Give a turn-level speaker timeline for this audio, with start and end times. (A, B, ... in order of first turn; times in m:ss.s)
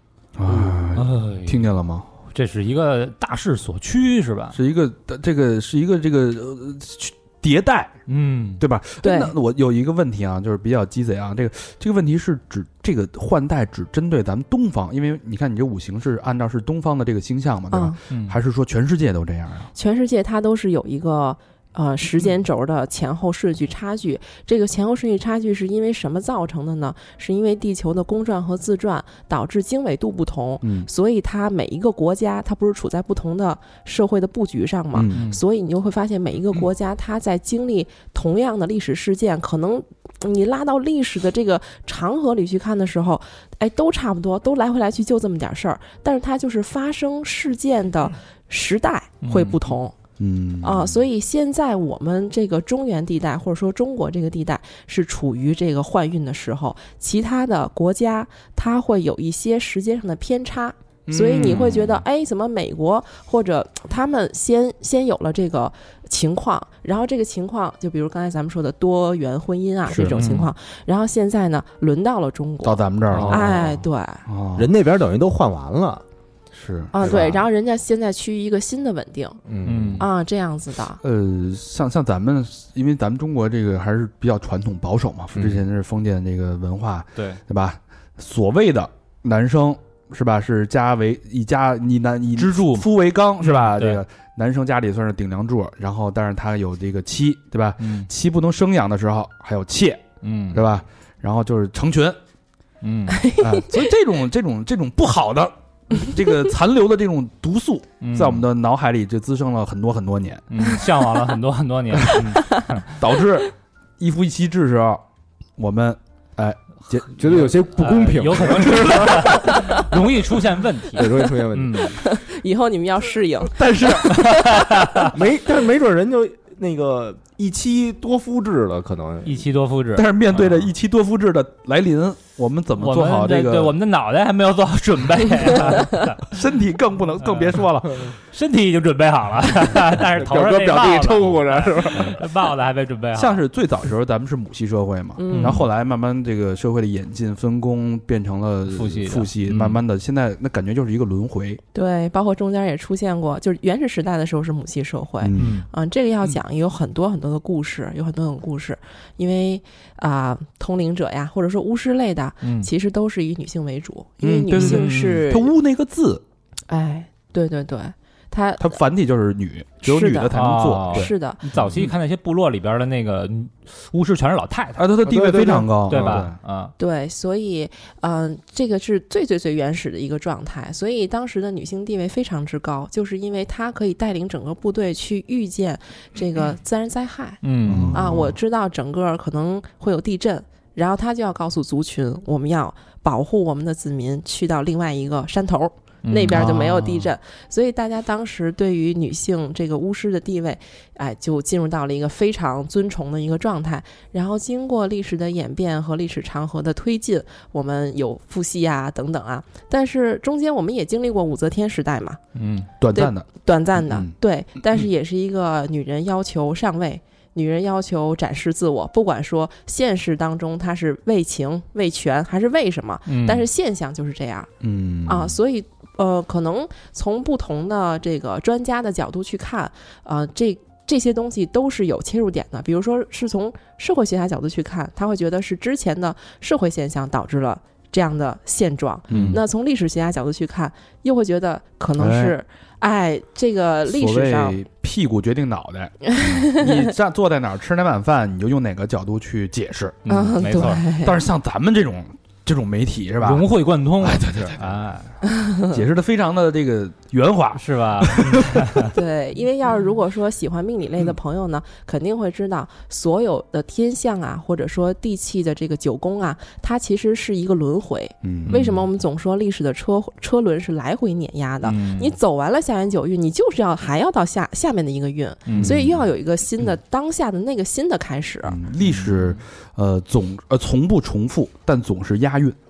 0:00.4-0:02.1 A
0:00.5-0:00.8 B
0:01.0-0:01.7 C
0:02.3-0:04.6 C
0:04.5-0:08.0 A
0:08.1-0:08.6 C
0:08.6-0:19.7 A
0:09.0-0:09.3 D
0:17.7-0:18.0 D
0:18.1-0:18.4 C
0:19.8-0:49.9 D
0:30.6-0:30.9 A
0:34.9-0:35.3 A
0:35.1-0:35.4 C
0:49.2-0:49.6 C
0:50.2-0:51.0 A
0:50.6-1:14.2 D
1:01.1-1:02.0 A
1:01.4-1:01.7 C
1:09.9-1:10.2 A
1:10.1-1:10.5 C
1:12.6-1:14.7 A
1:13.2-1:13.5 B
1:14.6-1:16.0 B
1:16.5-1:17.4 A
1:16.9-1:19.4 D
1:19.5-1:20.0 B
1:19.7-1:20.1 C
1:19.7-1:20.0 A
1:20.0-1:21.0 D
1:21.0-1:42.2 A
1:25.4-1:25.6 C
1:32.4-1:32.9 C
1:33.4-1:34.0 C
1:37.8-1:38.1 C
1:40.2-1:40.6 C
1:42.8-1:43.2 C
1:43.1-1:43.7 D
1:43.4-1:50.6 A
1:48.0-1:48.5 C
1:50.5-1:53.0 C
1:53.0-1:55.0 A
1:55.6-1:57.5 A
1:57.2-1:59.7 B
1:57.3-2:02.0 C
1:58.6-1:59.3 A
1:59.5-1:59.8 D
2:01.0-2:02.0 B
2:02.0-2:04.4 D
2:03.5-2:04.5 A
2:04.1-2:05.1 C
2:05.0-2:09.5 B
2:09.2-2:10.7 C
2:09.9-2:13.8 A
2:12.8-2:16.2 C
2:16.3-2:18.2 A
2:17.3-2:23.4 C
2:20.2-2:22.2 B
2:23.1-2:31.6 A
2:25.2-2:25.6 D
2:25.3-2:25.6 C
2:28.7-2:29.8 C
2:31.7-2:45.5 D
2:35.2-2:35.7 A
2:35.4-2:35.7 C
2:42.4-2:42.7 C
2:44.2-2:46.2 A
2:44.5-2:45.2 C
2:46.7-2:48.8 D
2:48.6-2:51.9 A
2:49.8-2:50.3 D
2:50.3-2:54.9 C
2:50.9-2:51.4 D
2:54.8-2:56.4 A
2:55.0-2:56.3 B
2:55.9-2:56.7 C
2:56.8-3:32.2 D
3:07.4-3:08.0 C
3:07.7-3:08.4 A
3:16.0-3:16.9 C
3:32.4-3:32.7 C
3:32.8-3:34.1 A
3:32.9-3:44.5 D
3:43.1-3:43.5 C
3:44.6-3:45.4 A
3:45.1-4:04.6 D
3:59.1-3:59.4 A
3:59.1-3:59.4 C
4:02.0-4:02.4 A
4:03.9-4:10.0 A
4:06.1-4:06.9 D
4:10.0-4:10.9 C
4:10.1-4:11.2 D
4:10.9-4:13.5 A
4:13.2-4:15.1 C
4:14.0-4:14.8 A
4:15.3-4:15.8 D
4:15.7-4:18.9 A
4:17.6-4:19.0 C
4:18.9-4:38.6 D
4:28.2-4:28.6 A
4:28.5-4:28.8 C
4:31.6-4:32.2 C
4:35.5-4:35.8 C
4:35.5-4:36.1 A
4:38.4-4:42.6 A
4:38.8-4:39.4 C